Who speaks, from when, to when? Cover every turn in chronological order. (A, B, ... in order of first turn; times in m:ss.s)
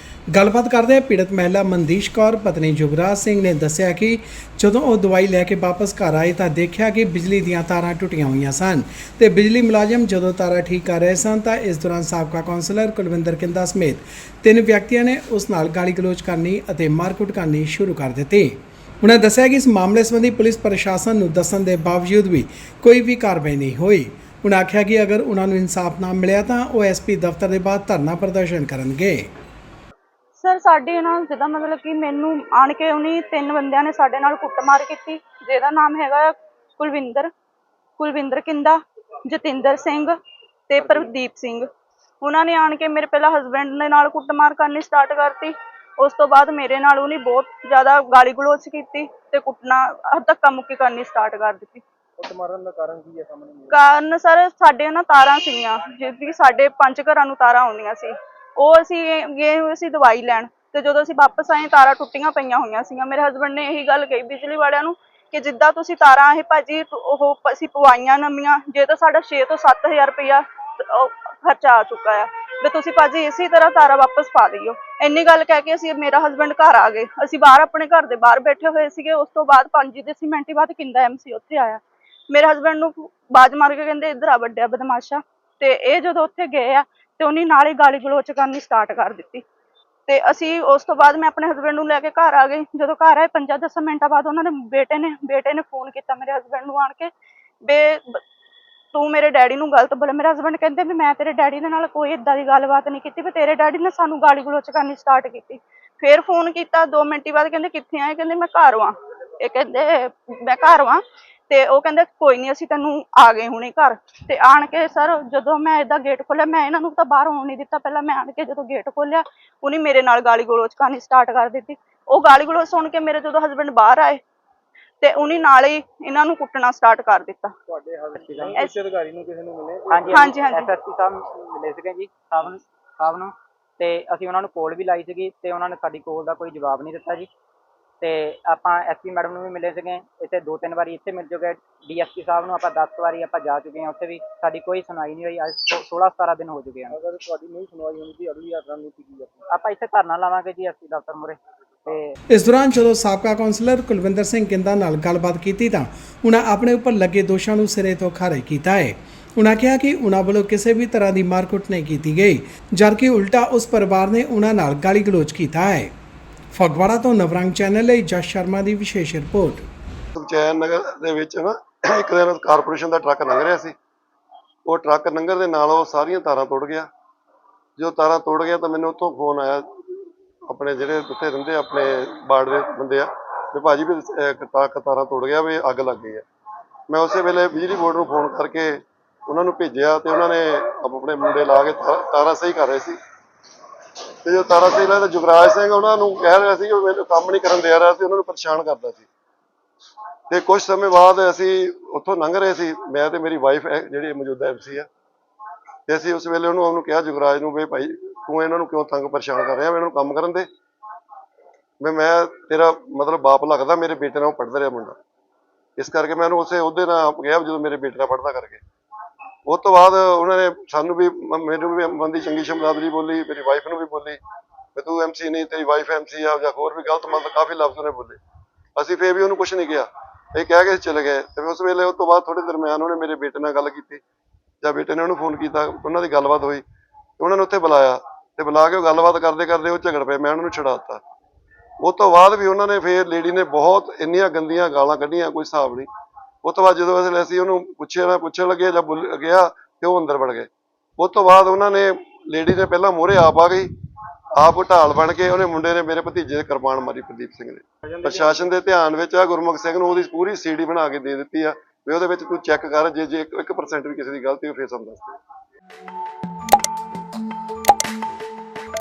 0:00.3-0:29.3 A
0:30.4-0:37.3 B
0:38.0-0:38.8 B
0:39.3-0:40.2 B
0:40.7-0:41.7 B
0:42.2-0:51.8 B
0:52.2-0:53.8 C
0:53.7-1:21.8 B
1:22.3-1:29.4 B
1:30.1-1:37.1 B
1:37.7-1:38.2 B
1:38.9-2:04.2 B
2:05.0-2:07.5 B
2:07.7-2:10.3 C
2:08.2-2:08.5 D
2:09.9-2:17.3 D
2:10.1-2:10.7 B
2:18.0-2:27.0 D
2:26.9-2:29.5 C
2:29.5-2:32.2 D
2:32.3-2:45.9 A
2:46.5-2:49.6 A
2:50.2-2:53.8 E
2:54.7-2:56.9 E
2:57.8-2:59.7 E
3:00.5-3:06.2 E
3:06.9-3:13.0 E
3:14.2-3:19.1 E
3:20.3-3:24.9 E
3:25.9-3:30.5 E
3:31.8-3:35.0 E
3:35.8-3:38.6 E
3:39.5-3:44.2 E
3:44.8-3:48.2 E
3:48.8-3:54.0 E
3:54.6-3:56.6 E
3:57.2-4:01.0 E
4:01.8-4:05.9 E
4:06.4-4:13.7 E
4:14.4-4:25.2 E
4:17.9-4:18.4 C